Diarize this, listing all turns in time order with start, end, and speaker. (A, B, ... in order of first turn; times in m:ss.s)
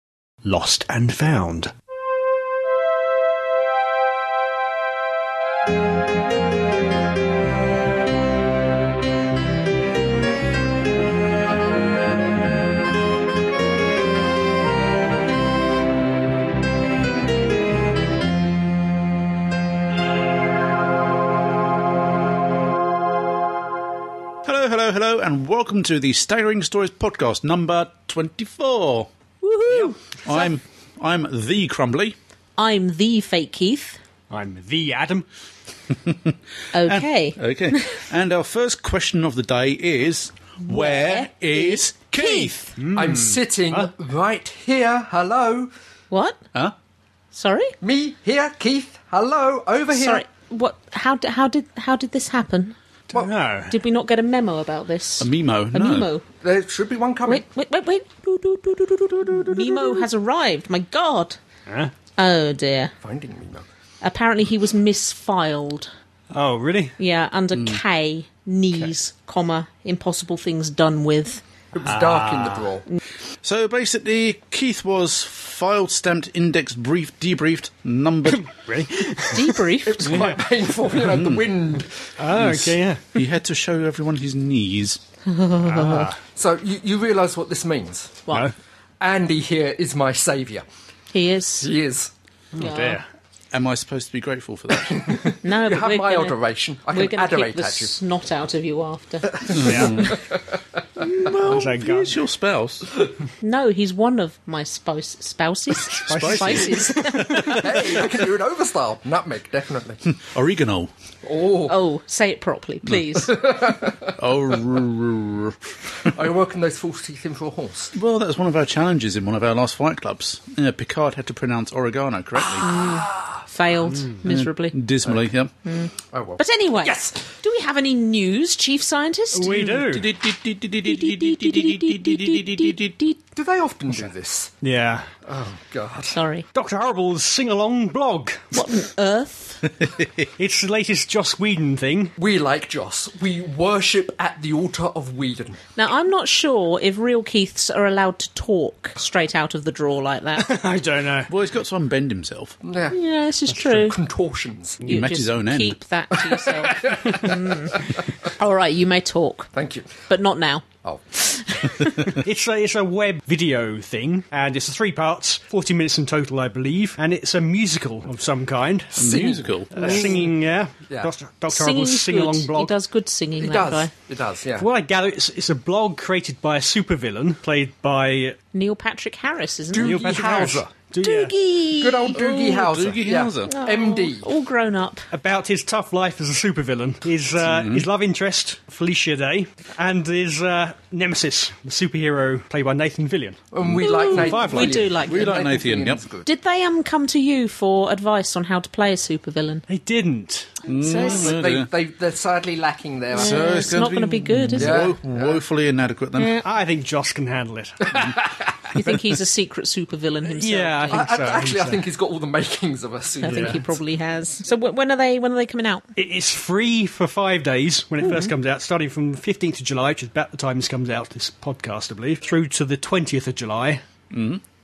0:00.4-0:01.7 A
0:24.4-0:29.1 B
0:29.4-0:30.5 C
0:29.7-0:30.0 A
0:30.2-0:32.2 B
0:32.6-0:34.0 C
0:34.3-0:35.3 A
0:35.9-0:42.6 B
0:36.7-0:38.1 C
0:40.6-0:42.8 C
0:42.8-0:43.9 A
0:43.0-0:45.7 D
0:46.1-0:46.4 C
0:47.3-0:47.7 C
0:47.8-0:50.2 D
0:49.9-0:52.8 C
0:53.1-0:53.8 A
0:53.7-0:56.2 C
0:55.2-0:56.1 B
0:56.4-0:57.4 D
0:57.3-1:01.4 C
1:02.2-1:02.9 C
1:03.0-1:03.6 D
1:04.0-1:05.9 C
1:06.3-1:07.0 A
1:07.0-1:11.4 C
1:07.5-1:07.8 B
1:11.7-1:12.8 D
1:11.8-1:12.7 A
1:13.4-1:18.5 B
1:18.3-1:20.4 A
1:19.3-1:20.4 C
1:19.8-1:22.0 D
1:20.9-1:21.5 B
1:22.2-1:23.2 A
1:22.3-1:25.0 B
1:25.3-1:26.1 C
1:25.6-1:26.2 A
1:26.2-1:28.2 D
1:29.0-1:30.6 D
1:31.1-1:31.7 C
1:31.6-1:32.1 D
1:32.6-1:33.1 A
1:32.6-1:33.0 C
1:33.5-1:35.1 B
1:34.8-1:38.0 D
1:35.4-1:36.4 C
1:36.9-1:40.0 C
1:39.4-1:40.6 D
1:39.5-1:40.2 B
1:39.6-1:40.0 A
1:41.0-1:42.9 B
1:41.4-1:42.2 A
1:43.4-1:47.8 C
1:46.0-1:48.1 A
1:46.1-1:46.8 B
1:47.3-1:50.0 D
1:50.1-1:50.9 B
1:51.2-1:51.8 D
1:51.7-1:53.4 C
1:52.9-1:53.2 B
1:53.2-1:54.2 D
1:54.2-1:55.6 B
1:56.0-1:57.9 D
1:57.9-2:02.7 B
2:02.4-2:03.4 D
2:02.6-2:04.8 C
2:04.2-2:05.5 B
2:05.6-2:09.8 C
2:06.1-2:07.2 D
2:09.3-2:10.1 A
2:09.4-2:13.0 B
2:10.8-2:13.2 C
2:13.4-2:14.5 D
2:14.6-2:15.1 A
2:15.3-2:16.2 D
2:16.1-2:16.4 C
2:16.5-2:18.6 A
2:18.5-2:19.7 C
2:20.4-2:22.2 A
2:22.2-2:25.6 D
2:25.8-2:30.6 C
2:30.4-2:31.3 A
2:31.3-2:32.6 B
2:32.6-2:33.0 D
2:32.9-2:34.0 C
2:33.6-2:34.8 D
2:34.8-2:35.8 B
2:34.8-2:39.5 C
2:36.1-2:38.0 D
2:39.5-2:39.9 D
2:40.1-2:42.2 C
2:42.1-2:49.1 A
2:49.0-2:50.1 B
2:49.0-2:50.3 D
2:49.7-2:52.7 A
2:51.5-2:53.9 C
2:53.4-2:54.7 D
2:54.6-2:58.4 A
2:58.5-3:00.2 C
2:59.7-3:00.7 D
2:59.8-3:01.3 A
3:01.0-3:02.2 C
3:01.8-3:04.3 D
3:02.1-3:03.5 B
3:03.5-3:05.1 C
3:05.1-3:13.4 A
3:07.4-3:07.9 B
3:13.5-3:16.3 D
3:13.8-3:15.6 C
3:14.1-3:14.9 A
3:14.6-3:16.0 B
3:16.2-3:19.6 C
3:19.7-3:20.6 A
3:20.7-3:21.7 B
3:20.8-3:21.4 C
3:20.9-3:23.7 D
3:23.1-3:24.9 C
3:23.2-3:26.4 B
3:24.6-3:25.4 D
3:26.4-3:28.1 A
3:27.8-3:28.6 D
3:28.7-3:31.1 C
3:30.4-3:31.8 A
3:30.9-3:33.7 D
3:33.2-3:35.9 C
3:33.3-3:33.6 A
3:36.0-3:43.8 A
3:38.0-3:38.3 C
3:44.1-3:44.4 B